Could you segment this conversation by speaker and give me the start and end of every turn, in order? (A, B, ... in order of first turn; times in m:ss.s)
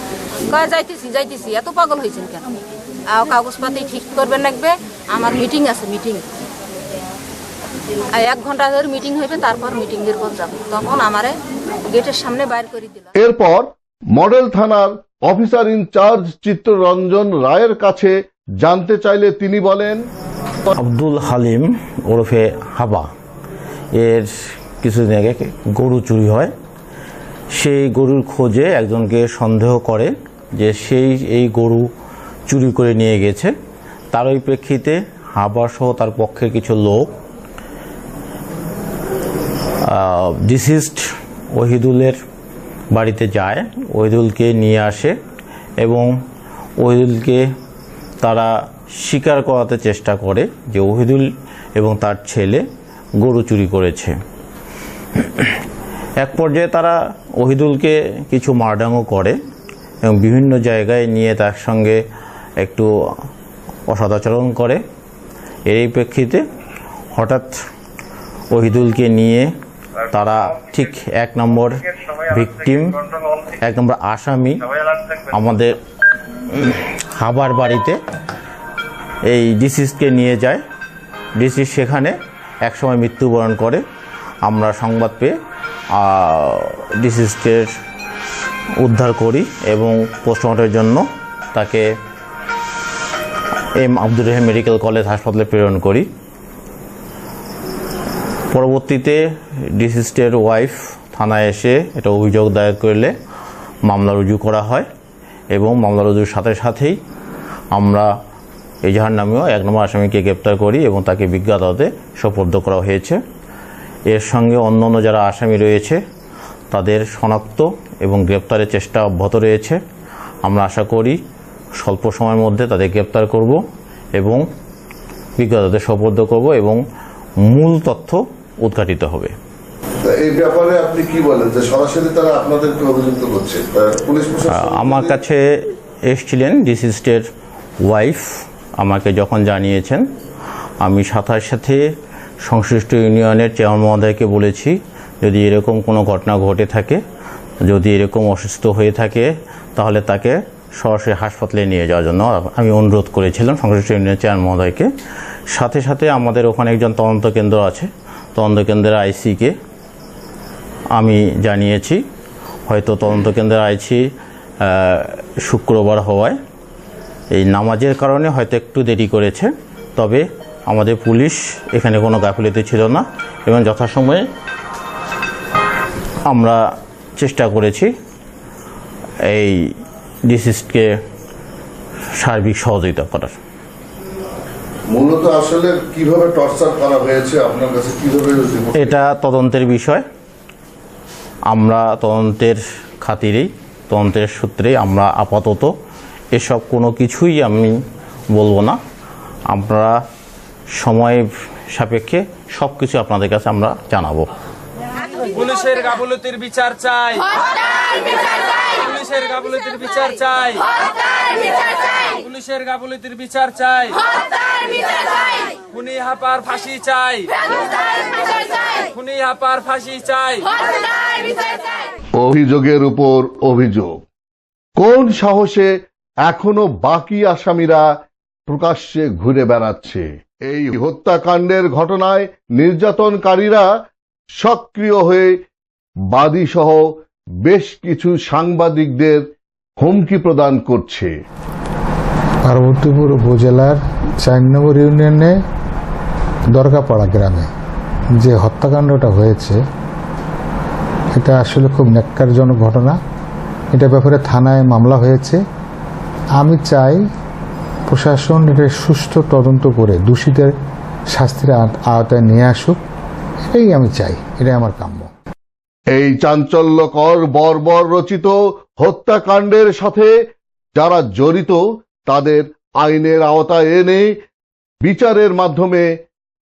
0:00.5-0:06.2 A
0:08.1-0:11.3 A
0:11.9-0:13.1 A
0:13.2-0:20.1 B
0:20.7-0:23.1 C
0:24.0-0:26.5 C
0:27.6-0:31.9 C
0:32.5-0:33.5 C
0:34.1-0:37.1 C
0:39.8-0:42.2 C
0:42.9-0:45.2 C
0:45.8-0:46.1 C
0:46.8-0:47.4 C
0:48.2-0:52.6 C
0:53.2-0:54.2 C
0:55.2-0:55.6 C
0:56.2-0:59.4 C
1:00.0-1:02.0 C
1:02.6-1:02.9 C
1:03.9-1:04.8 C
1:05.7-1:06.4 C
1:07.2-1:07.6 C
1:08.5-1:09.5 C
1:10.1-1:15.8 C
1:16.5-1:18.0 C
1:19.3-1:20.6 C
1:21.4-1:23.8 C
1:24.4-1:25.3 C
1:25.9-1:27.7 C
1:28.8-1:31.9 C
1:33.8-1:36.1 C
1:38.5-1:39.2 C
1:39.8-1:43.1 C
1:43.8-1:44.9 C
1:45.6-1:47.0 C
1:47.7-1:48.1 C
1:48.8-1:53.2 C
1:54.1-1:56.0 C
1:56.7-1:59.8 C
2:00.4-2:01.2 C
2:01.8-2:03.6 C
2:04.2-2:04.4 C
2:05.4-2:06.8 C
2:07.4-2:09.3 C
2:10.1-2:15.2 B
2:14.5-2:15.4 C
2:16.1-2:17.3 C
2:17.8-2:20.0 C
2:20.8-2:21.8 C
2:22.4-2:27.0 C
2:27.6-2:34.9 C
2:35.5-2:39.5 C
2:41.0-2:42.0 C
2:42.7-2:44.0 C
2:44.6-2:46.4 C
2:47.3-2:54.2 C
2:56.3-2:56.6 C
2:57.2-2:57.9 C
2:59.3-2:59.7 C
3:00.3-3:00.9 C
3:02.2-3:03.4 C
3:04.9-3:09.0 B
3:08.8-3:10.0 C
3:11.5-3:15.7 C
3:16.3-3:17.8 C
3:18.3-3:18.8 C
3:19.5-3:20.0 C
3:20.8-3:24.3 C
3:25.3-3:27.3 D
3:28.8-3:30.6 D
3:32.2-3:34.0 D
3:35.7-3:37.3 D
3:38.9-3:40.5 D
3:42.2-3:44.0 B
3:44.8-3:45.7 B
3:46.2-3:47.9 B
3:48.5-3:53.7 B
3:54.4-3:55.4 B
3:56.1-3:56.9 B
3:57.4-3:59.3 B
3:59.8-4:01.1 B
4:02.5-4:05.4 E
4:06.5-4:07.5 E
4:08.2-4:09.6 E
4:11.2-4:13.0 E
4:13.7-4:15.4 E
4:16.4-4:17.0 E
4:17.9-4:20.5 E
4:21.1-4:22.8 E
4:23.5-4:25.1 E
4:25.9-4:30.1 B
4:30.8-4:34.1 B
4:34.8-4:35.9 B